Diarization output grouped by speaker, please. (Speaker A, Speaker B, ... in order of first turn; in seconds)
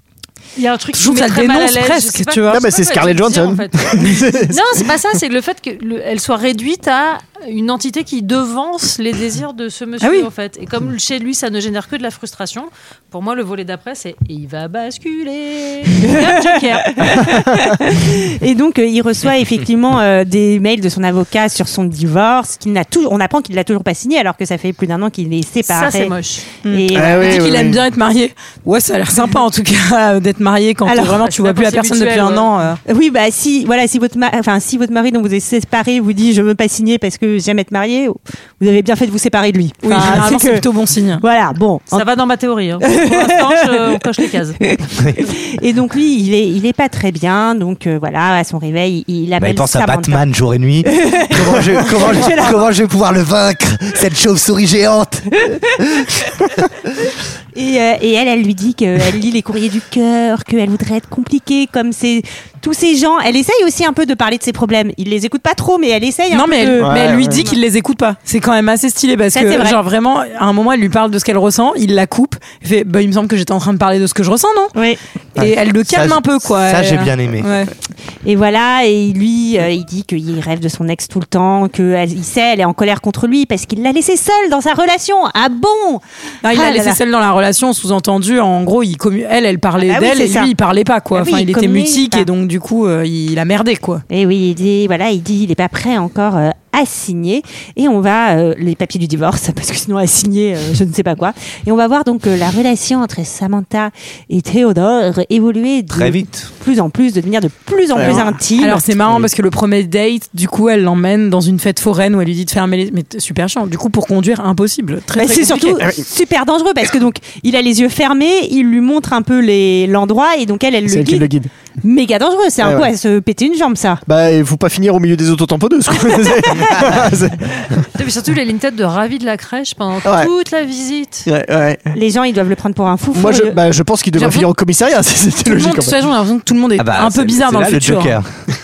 Speaker A: 0.6-17.2, 25.7-26.5, 31.2-32.5, 41.9-44.6, 128.0-131.3
Speaker B: 1.0-2.7, 10.0-10.3, 26.6-32.8, 39.8-41.2, 66.3-74.7, 75.4-77.7, 86.4-94.0, 108.1-115.8, 134.2-134.5, 135.4-138.2
Speaker C: 2.5-4.6, 26.9-27.8, 66.8-67.4, 108.0-108.3, 120.9-121.5, 122.6-122.9, 124.1-127.8, 130.0-130.3, 131.3-131.9, 133.1-136.0
Speaker D: 16.0-26.1, 26.7-27.6, 30.9-31.2, 32.9-40.6, 41.2-42.0, 42.8-44.0, 44.7-50.2, 50.9-52.6, 57.5-67.3, 69.3-69.8, 78.2-87.0, 89.8-90.5, 91.2-92.3, 94.1-108.9, 115.2-121.3, 121.8-124.0, 131.9-133.6
Speaker E: 49.4-55.4, 75.9-77.5, 105.9-106.5, 136.8-138.3